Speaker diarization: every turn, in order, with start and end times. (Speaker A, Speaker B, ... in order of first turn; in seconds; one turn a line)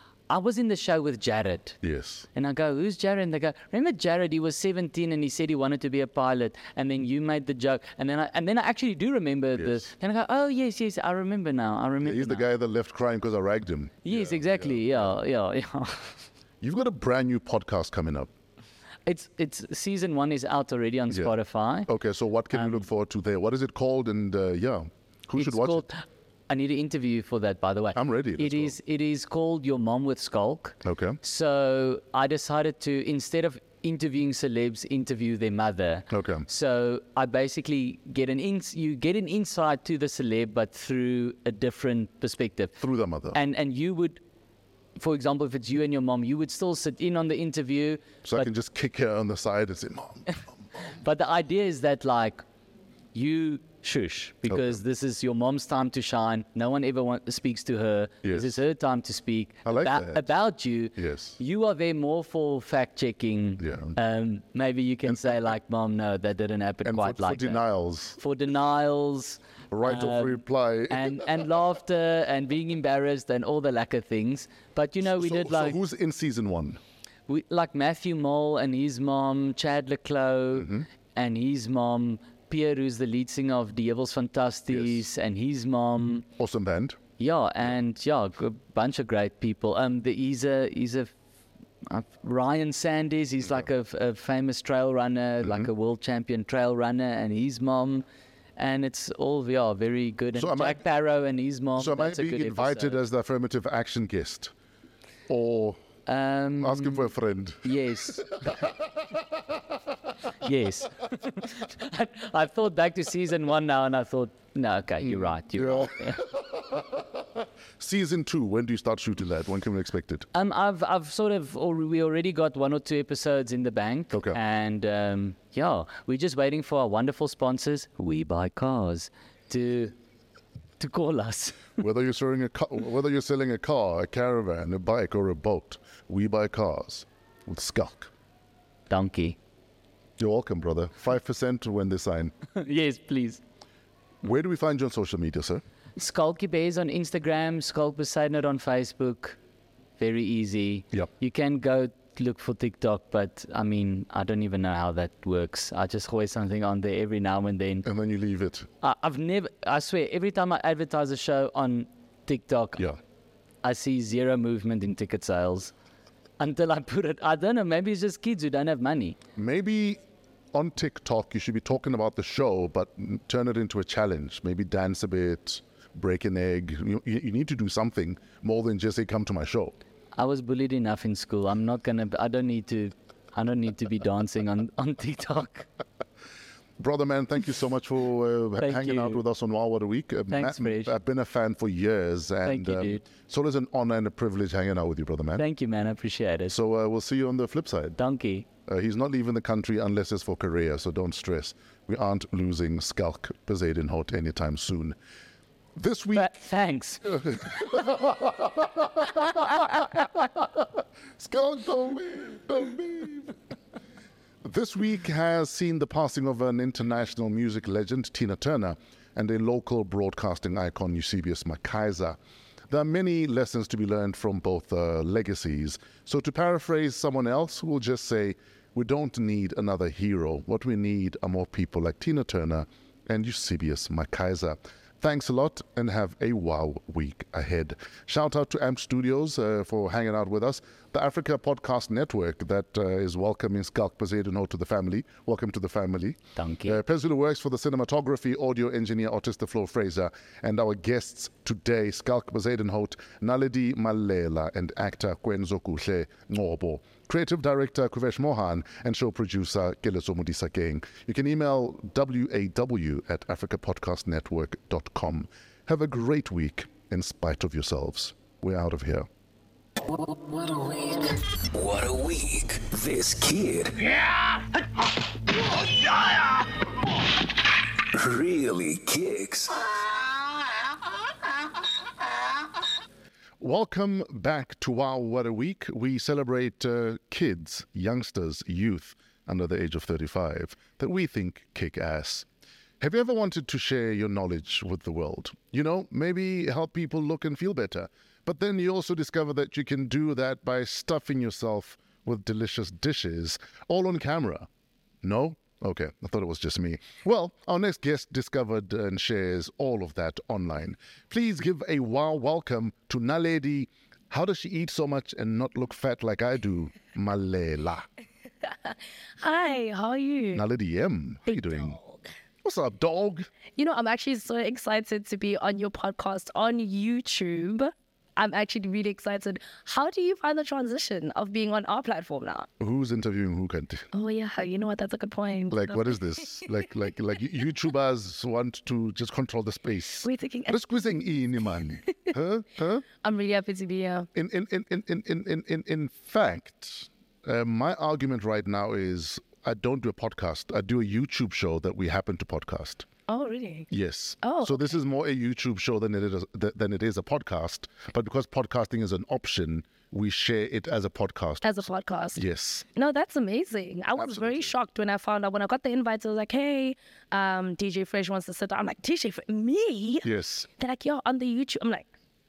Speaker A: 0.3-1.8
Speaker B: 1.8-2.3
Speaker A: 2.4-12.4
Speaker B: 9.6-9.9
Speaker B: 12.0-15.2
Speaker A: 14.0-16.2
Speaker B: 16.6-18.3
Speaker A: 19.1-21.9
Speaker B: 21.9-25.9
Speaker A: 22.5-22.8
Speaker A: 25.4-42.8
Speaker B: 27.9-28.8
Speaker B: 30.8-31.2
Speaker B: 36.1-36.5
Speaker B: 42.8-43.4
Speaker A: 43.3-44.2
Speaker A: 45.0-48.5
Speaker B: 48.2-50.4
Speaker A: 50.9-52.4
Speaker A: 53.1-67.6
Speaker B: 54.5-54.8
Speaker B: 58.2-58.6
Speaker B: 59.6-60.3
Speaker B: 61.0-61.4
Speaker B: 63.6-64.0
Speaker B: 66.8-68.2
Speaker A: 68.2-75.8
Speaker B: 69.7-71.3
Speaker B: 75.1-76.8
Speaker A: 77.3-86.3
Speaker B: 80.5-80.9
Speaker B: 84.7-85.0
Speaker B: 86.4-87.0
Speaker A: 87.2-91.1
Speaker A: 91.9-98.0
Speaker B: 95.4-95.7
Speaker A: 98.6-103.0
Speaker B: 100.4-100.8
Speaker B: 101.8-104.5
Speaker B: 105.3-105.8
Speaker A: 106.1-107.1
Speaker B: 106.6-107.8
Speaker A: 107.6-108.7
Speaker A: 110.4-116.3
Speaker B: 115.0-116.8
Speaker B: 117.8-120.3
Speaker A: 120.3-130.0
Speaker B: 124.1-124.4
Speaker A: 130.8-131.7
Speaker B: 131.8-138.1
Speaker A: 138.9-139.4
Speaker B: 140.2-142.3
Speaker A: 142.6-143.4
Speaker B: 144.2-145.6
Speaker A: 146.0-149.4
Speaker A: 150.0-157.9
Speaker B: 157.8-158.7
Speaker A: 158.8-162.8
Speaker A: 163.6-165.7
Speaker A: 166.4-169.2
Speaker B: 169.4-170.0
Speaker B: 170.5-179.8
Speaker A: 180.2-185.7
Speaker B: 186.8-195.4
Speaker A: 188.6-189.2
Speaker A: 190.3-190.9
Speaker A: 192.4-193.1
Speaker A: 195.4-196.6
Speaker B: 196.5-198.0
Speaker A: 198.0-198.5
Speaker B: 198.7-205.0
Speaker B: 205.8-206.3
Speaker A: 206.2-207.8
Speaker B: 207.1-209.8
Speaker B: 211.2-213.3
Speaker B: 214.4-222.2
Speaker B: 222.7-269.1
Speaker A: 246.4-246.8
Speaker C: 271.4-274.0
Speaker C: 275.7-276.2
Speaker C: 277.9-279.7
Speaker B: 283.4-292.3
Speaker B: 292.8-304.5
Speaker B: 305.0-317.9
Speaker D: 318.7-320.4
Speaker B: 320.3-321.8
Speaker D: 321.7-322.0
Speaker B: 322.4-323.3
Speaker D: 323.6-332.5
Speaker B: 332.6-333.9
Speaker D: 333.9-335.9
Speaker B: 335.5-342.9
Speaker D: 340.0-340.6
Speaker D: 343.0-344.1
Speaker B: 344.1-352.9
Speaker D: 353.1-353.7
Speaker B: 353.7-362.7
Speaker D: 354.2-354.6
Speaker D: 361.4-362.2
Speaker D: 362.7-371.9
Speaker B: 364.0-364.5
Speaker B: 370.0-370.5